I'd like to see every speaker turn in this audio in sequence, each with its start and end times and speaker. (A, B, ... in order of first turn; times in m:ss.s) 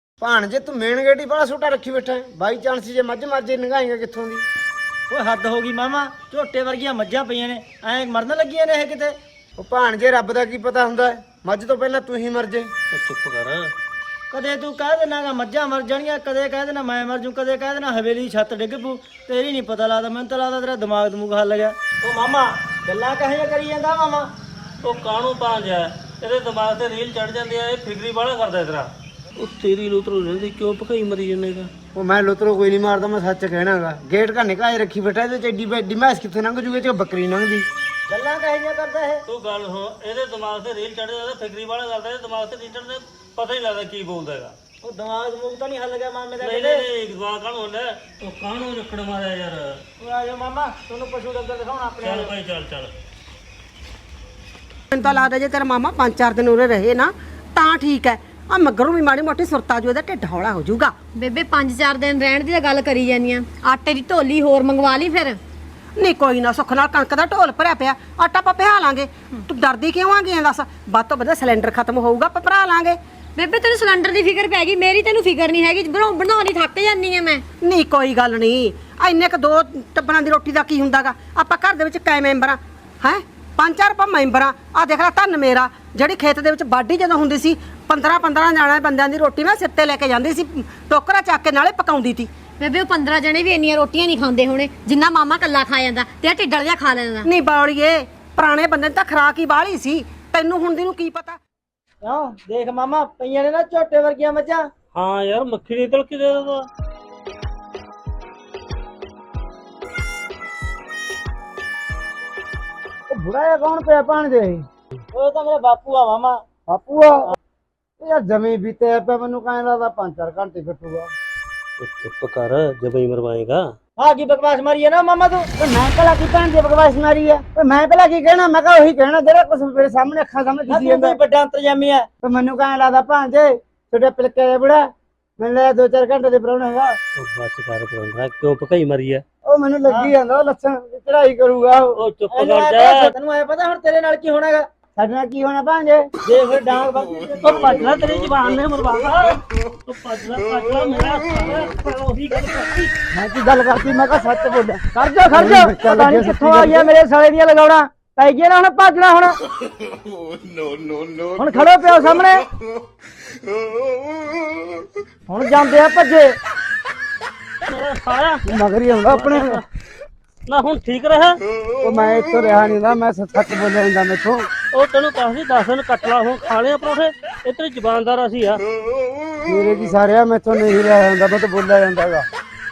0:00.2-0:04.4 A
0:05.1-0:09.1 B
0:09.6-0:12.7 A
0:12.9-0:13.7 C
0:14.3-0:24.3 B
0:24.8-0:31.7 C
0:31.9-0:37.6 A
0:38.1-0:39.2 B
0:39.3-0:44.6 C
0:44.8-0:46.8 B
0:46.4-0:49.8 C
0:50.0-0:52.3 B
0:52.0-0:52.9 C
0:54.9-1:00.9 D
1:01.1-1:02.1 B
1:01.4-1:05.4 E
1:06.0-1:13.0 D
1:13.4-1:17.4 E
1:17.6-1:32.3 D
1:32.6-1:37.3 B
1:35.7-1:36.3 E
1:37.2-1:41.4 D
1:42.0-1:44.6 B
1:44.9-1:46.6 C
1:53.1-1:54.6 A
1:55.1-1:56.4 B
1:56.7-1:57.3 A
1:58.0-2:01.1 A
2:01.8-2:03.6 C
2:04.0-2:05.5 B
2:05.6-2:11.2 A
2:10.7-2:12.1 B
2:12.2-2:14.8 A
2:15.4-2:17.0 A
2:17.2-2:19.2 C
2:19.4-2:22.0 A
2:19.8-2:20.1 B
2:22.0-2:23.1 C
2:22.3-2:24.6 B
2:25.0-2:26.1 A
2:26.2-2:27.6 B
2:27.4-2:32.9 C
2:33.1-2:36.9 A
2:34.9-2:39.3 B
2:41.4-2:42.4 B
2:45.3-2:46.3 B
2:47.6-2:48.4 C
2:48.4-2:49.6 A
2:49.1-2:49.6 C
2:50.5-2:51.4 C
2:51.8-2:54.5 A
2:54.7-2:58.6 C
2:59.4-3:02.3 A